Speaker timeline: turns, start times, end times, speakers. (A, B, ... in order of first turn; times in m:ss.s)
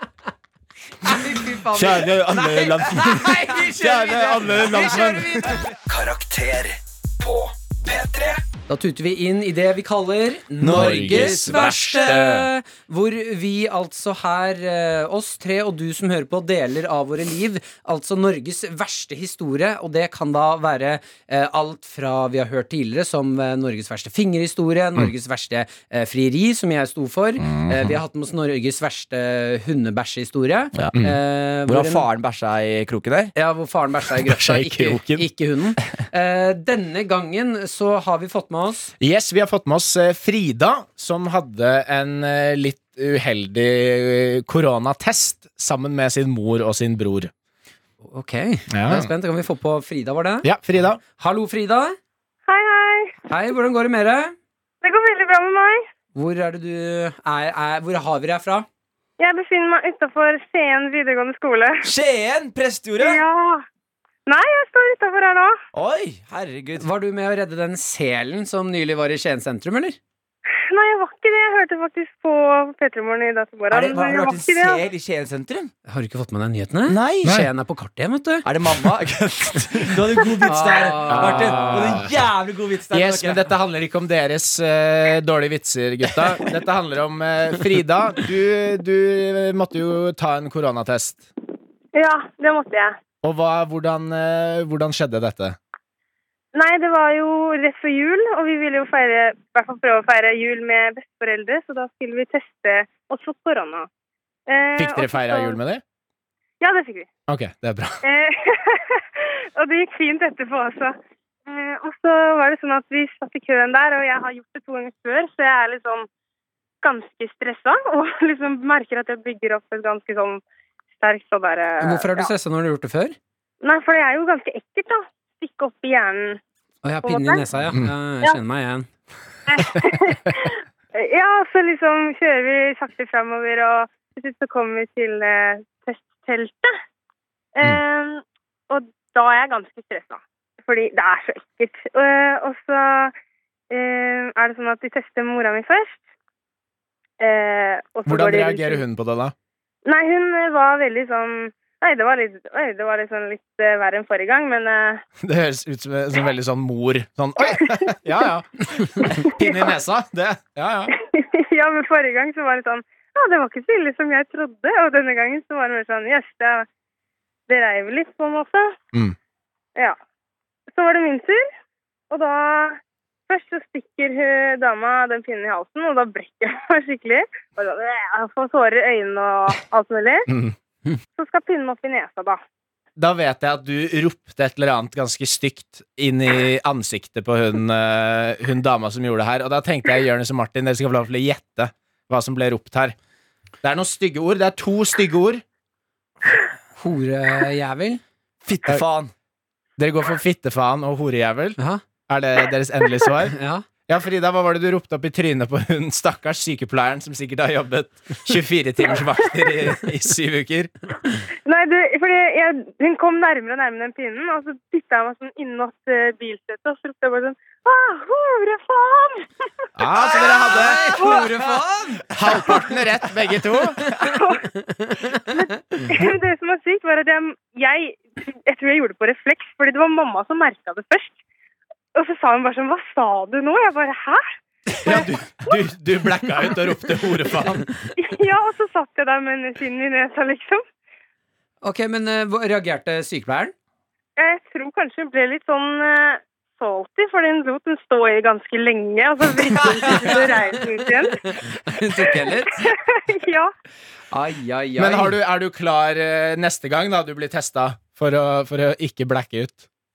0:01.0-0:05.7 A
0:01.7-0:05.6 B
0:01.8-0:03.2 C
0:05.9-0:08.4 D
0:08.7-0:32.1 A
0:10.6-0:12.3 C
0:10.6-0:12.5 B
0:27.5-0:28.0 B
0:31.7-0:33.3 C
0:33.4-0:38.9 A
0:34.2-0:35.3 B
0:39.0-0:47.3 B
0:48.0-0:50.5 A
0:48.7-0:49.1 B
0:50.4-0:51.0 B
0:51.2-0:52.0 A
0:52.5-0:53.2 E
0:53.3-0:54.4 A
0:54.8-0:55.8 E
0:56.2-0:58.7 A
0:59.2-1:01.9 E
1:01.8-1:03.2 C
1:03.0-1:03.6 E
1:04.3-1:05.6 E
1:05.7-1:06.9 C
1:06.8-1:10.0 A
1:10.7-1:14.8 E
1:13.7-1:15.7 C
1:15.9-1:18.5 A
1:16.9-1:17.4 C
1:17.2-1:17.5 B
1:18.4-1:23.5 C
1:20.4-1:22.1 A
1:21.1-1:22.1 B
1:22.9-1:31.3 B
1:32.0-1:33.0 E
1:33.2-1:35.6 B
1:36.5-1:43.9 E
1:44.5-1:45.6 E
1:44.8-1:45.8 B
1:46.6-1:47.1 E
1:47.3-1:48.0 B
1:48.0-1:56.1 E
1:56.8-2:00.4 E
2:01.0-2:02.3 E
2:01.8-2:03.2 A
2:03.6-2:06.4 E
2:06.8-2:08.9 A
2:07.0-2:07.4 E
2:09.5-2:16.7 E
2:17.6-2:23.1 E
2:23.7-2:26.0 E
2:27.2-2:28.8 E
2:28.1-2:29.3 B
2:29.8-2:35.0 E
2:35.2-2:40.9 B
2:37.4-2:37.9 E
2:39.0-2:39.7 E
2:40.9-2:46.7 E
2:47.5-2:48.8 E
2:50.7-2:51.5 E
2:52.1-3:00.3 E
3:00.3-3:00.6 B
3:01.2-3:02.4 E
3:03.0-3:13.0 B
3:13.6-3:15.4 B
3:16.8-3:18.0 A
3:18.4-3:19.1 C
3:19.8-3:23.4 B
3:23.3-3:23.6 A
3:23.9-3:30.7 B
3:31.4-3:39.3 E
3:39.8-3:41.0 B
3:40.1-3:42.1 A
3:40.6-3:41.2 C
3:41.0-3:41.3 E
3:42.1-3:43.8 B
3:43.9-3:45.9 A
3:44.0-3:44.5 E
3:45.1-3:51.2 E
3:52.0-3:55.1 E
3:54.8-3:57.6 B
3:58.0-4:00.6 E
4:01.6-4:03.5 A
4:04.2-4:11.4 E
4:09.7-4:10.1 C
4:11.2-4:12.7 A
4:12.0-4:13.5 E
4:14.1-4:15.2 A
4:14.8-4:19.6 B